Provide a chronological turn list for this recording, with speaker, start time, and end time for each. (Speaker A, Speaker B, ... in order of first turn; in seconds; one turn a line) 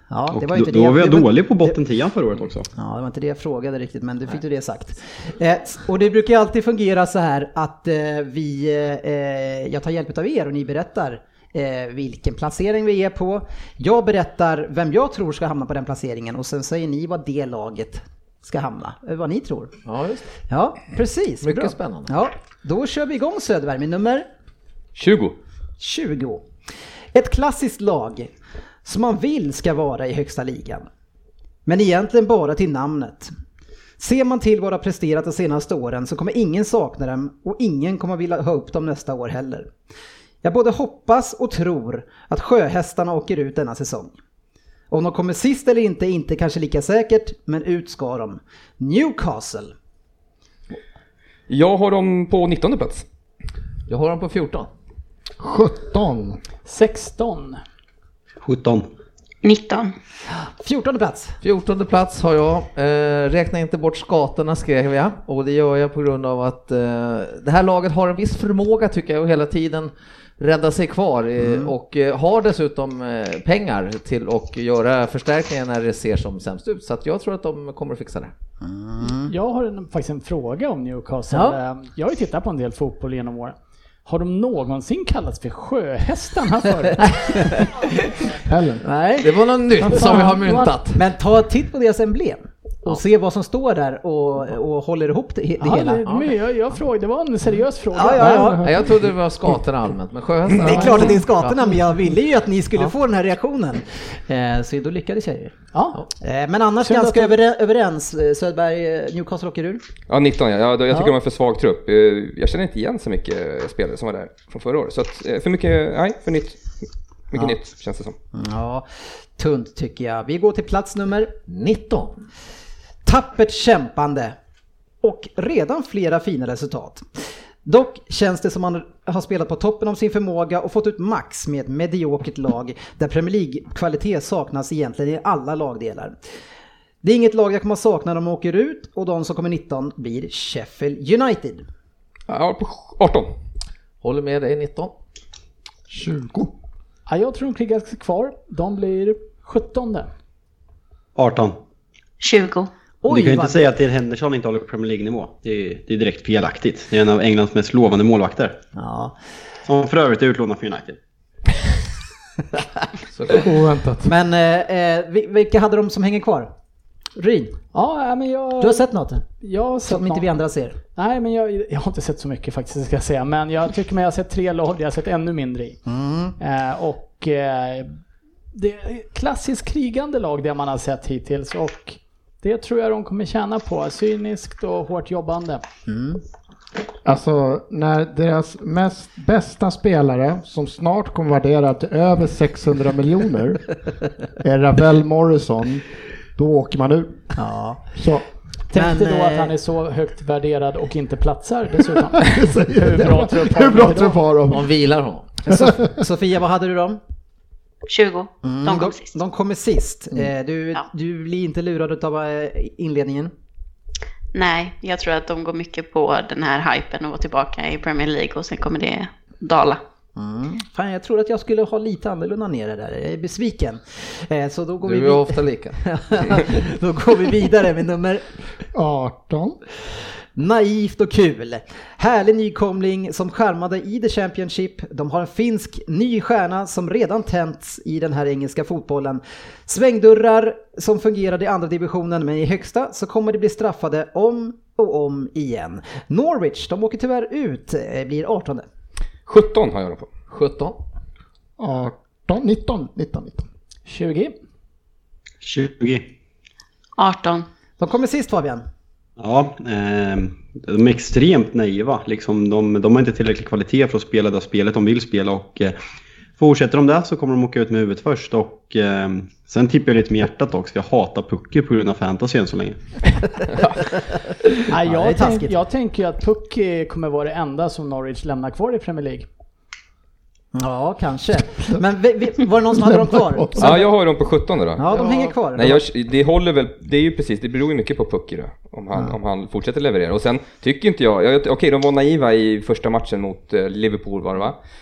Speaker A: 0.1-1.8
Speaker B: 0.3-2.7
Speaker A: 2.7-19.7
Speaker C: 19.9-20.2
Speaker A: 20.5-24.3
Speaker C: 21.4-22.1
Speaker D: 24.9-25.4
Speaker A: 25.8-26.4
Speaker A: 27.1-28.3
Speaker A: 28.8-30.9
Speaker A: 31.6-33.3
Speaker A: 34.0-39.7
Speaker A: 40.4-44.1
Speaker A: 44.9-49.7
Speaker D: 51.5-53.0
Speaker C: 53.9-54.7
Speaker E: 55.4-56.4
Speaker F: 56.6-57.6
Speaker B: 58.4-58.9
Speaker G: 59.4-59.9
Speaker A: 60.4-61.4
Speaker C: 61.4-78.3
Speaker A: 71.4-71.7
Speaker A: 78.6-79.3
Speaker F: 79.2-87.1
Speaker A: 81.3-81.6
Speaker E: 88.5-88.8
Speaker A: 88.8-89.3
Speaker C: 89.2-91.0
Speaker F: 89.9-90.7
Speaker A: 90.9-96.0
Speaker F: 95.6-98.6
Speaker A: 97.9-98.7
Speaker E: 98.2-98.7
Speaker C: 98.6-101.6
Speaker A: 100.5-105.5
Speaker F: 100.6-101.1
Speaker F: 105.7-106.0
Speaker A: 106.2-109.8
Speaker F: 106.8-107.3
Speaker D: 110.1-116.6
Speaker D: 117.3-118.1
Speaker A: 118.3-121.3
Speaker C: 121.5-122.2
Speaker A: 123.0-124.3
Speaker A: 125.0-127.0
Speaker A: 127.6-136.2
Speaker A: 137.0-141.6
Speaker D: 142.3-143.3
Speaker C: 144.0-144.9
Speaker E: 145.9-146.5
Speaker F: 147.1-150.1
Speaker B: 151.2-151.6
Speaker G: 152.2-152.7
Speaker A: 153.0-153.7
Speaker B: 153.1-158.6
Speaker A: 158.8-159.2
Speaker B: 159.7-161.0
Speaker C: 163.1-163.4
Speaker E: 163.3-164.1
Speaker A: 164.0-166.5
Speaker A: 167.2-167.6
Speaker F: 167.7-170.3
Speaker A: 168.6-169.2
Speaker A: 169.8-170.8
Speaker F: 170.9-175.8
Speaker A: 175.8-176.3
Speaker F: 176.4-178.0
Speaker F: 178.5-185.6
Speaker A: 185.9-186.2
Speaker E: 187.0-193.7
Speaker E: 194.4-197.3
Speaker A: 197.3-197.9
Speaker E: 197.9-198.2
Speaker F: 198.7-204.2
Speaker A: 198.7-199.5
Speaker E: 202.1-204.7
Speaker C: 204.5-205.3
Speaker A: 205.4-207.0
Speaker E: 205.5-205.9
Speaker G: 207.9-209.2
Speaker A: 208.4-213.3
Speaker G: 214.3-219.8
Speaker A: 220.2-228.2
Speaker C: 224.8-225.8
Speaker E: 228.7-229.6
Speaker A: 230.3-248.7
Speaker D: 249.3-250.1
Speaker C: 250.3-250.8
Speaker E: 251.6-253.4
Speaker F: 253.9-254.3
Speaker B: 255.4-256.0
Speaker G: 257.0-257.4
Speaker A: 257.8-258.6
Speaker B: 259.2-265.8
Speaker B: 266.4-272.8
Speaker F: 274.7-279.2
Speaker A: 274.8-275.6
Speaker A: 280.5-283.9
Speaker E: 282.7-283.8
Speaker D: 283.6-284.9
Speaker A: 284.8-285.9
Speaker C: 284.9-285.3
Speaker D: 285.5-294.6